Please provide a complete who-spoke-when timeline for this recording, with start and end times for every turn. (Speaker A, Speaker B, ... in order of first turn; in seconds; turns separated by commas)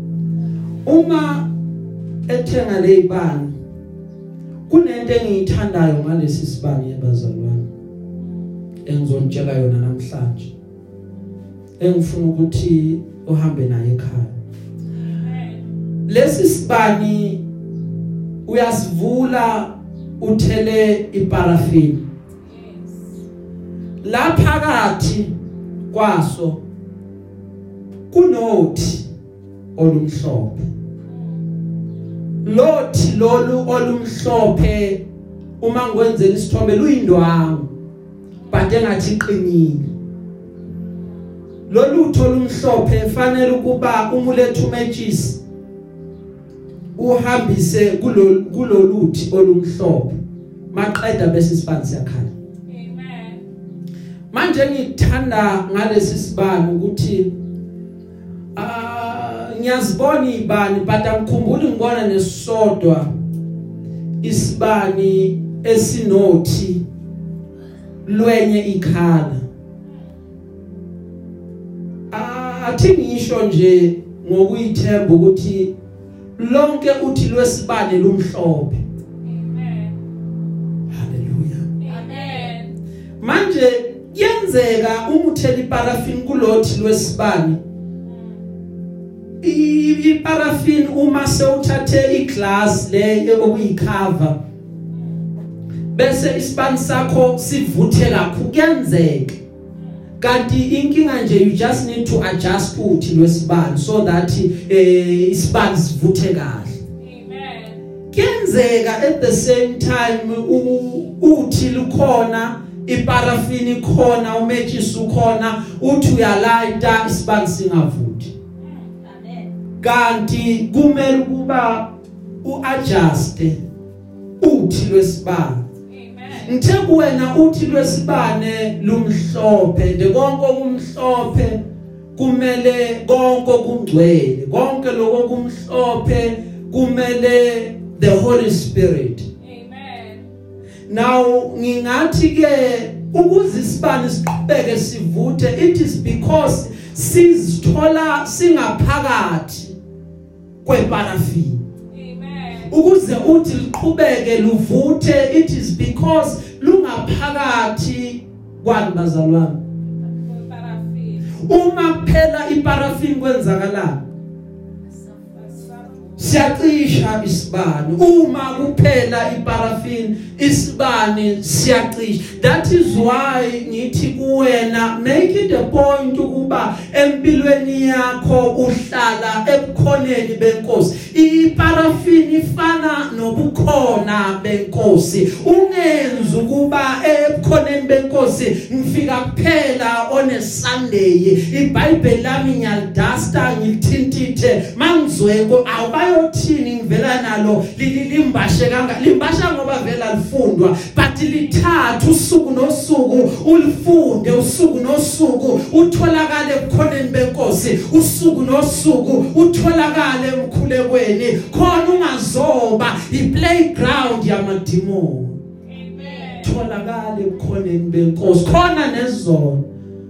Speaker A: 0.8-1.5, Speaker A: 2.3-3.5, Speaker A: 4.7-7.6, Speaker A: 8.8-10.5, Speaker A: 11.8-14.3, Speaker B: 14.9-15.6, Speaker A: 16.1-17.4, Speaker A: 18.4-22.1, Speaker B: 22.4-23.1, Speaker A: 24.0-25.3, Speaker A: 25.9-26.6, Speaker A: 28.1-29.0, Speaker A: 29.8-30.6, Speaker B: 31.1-31.4, Speaker A: 32.4-35.0, Speaker A: 35.6-37.7, Speaker A: 38.5-39.9, Speaker A: 41.7-45.4, Speaker A: 47.0-50.1, Speaker A: 50.7-52.3, Speaker B: 52.7-53.4, Speaker A: 54.3-57.3, Speaker A: 58.5-63.1, Speaker A: 64.2-66.8, Speaker A: 68.0-69.4, Speaker A: 72.1-75.7, Speaker A: 76.4-78.8, Speaker B: 79.2-80.0, Speaker A: 80.9-81.7, Speaker B: 81.8-82.8, Speaker C: 81.9-82.6, Speaker A: 83.2-87.6, Speaker B: 88.0-88.3, Speaker A: 89.4-94.4, Speaker A: 95.9-99.3, Speaker A: 100.2-106.8, Speaker B: 107.0-107.8, Speaker A: 108.1-118.3, Speaker B: 118.6-118.9, Speaker C: 119.0-119.5, Speaker A: 119.8-121.9, Speaker A: 122.4-123.5, Speaker A: 124.4-125.6, Speaker B: 125.9-126.6, Speaker A: 126.3-131.6, Speaker A: 132.2-139.3, Speaker B: 139.4-140.3, Speaker A: 140.9-149.7, Speaker A: 150.6-151.6, Speaker B: 151.9-152.7, Speaker A: 152.7-159.6, Speaker B: 160.1-161.3, Speaker A: 161.4-164.0, Speaker C: 164.8-166.1, Speaker B: 165.3-166.0, Speaker A: 166.2-215.4, Speaker B: 215.7-216.6, Speaker C: 215.9-216.5, Speaker A: 216.4-219.6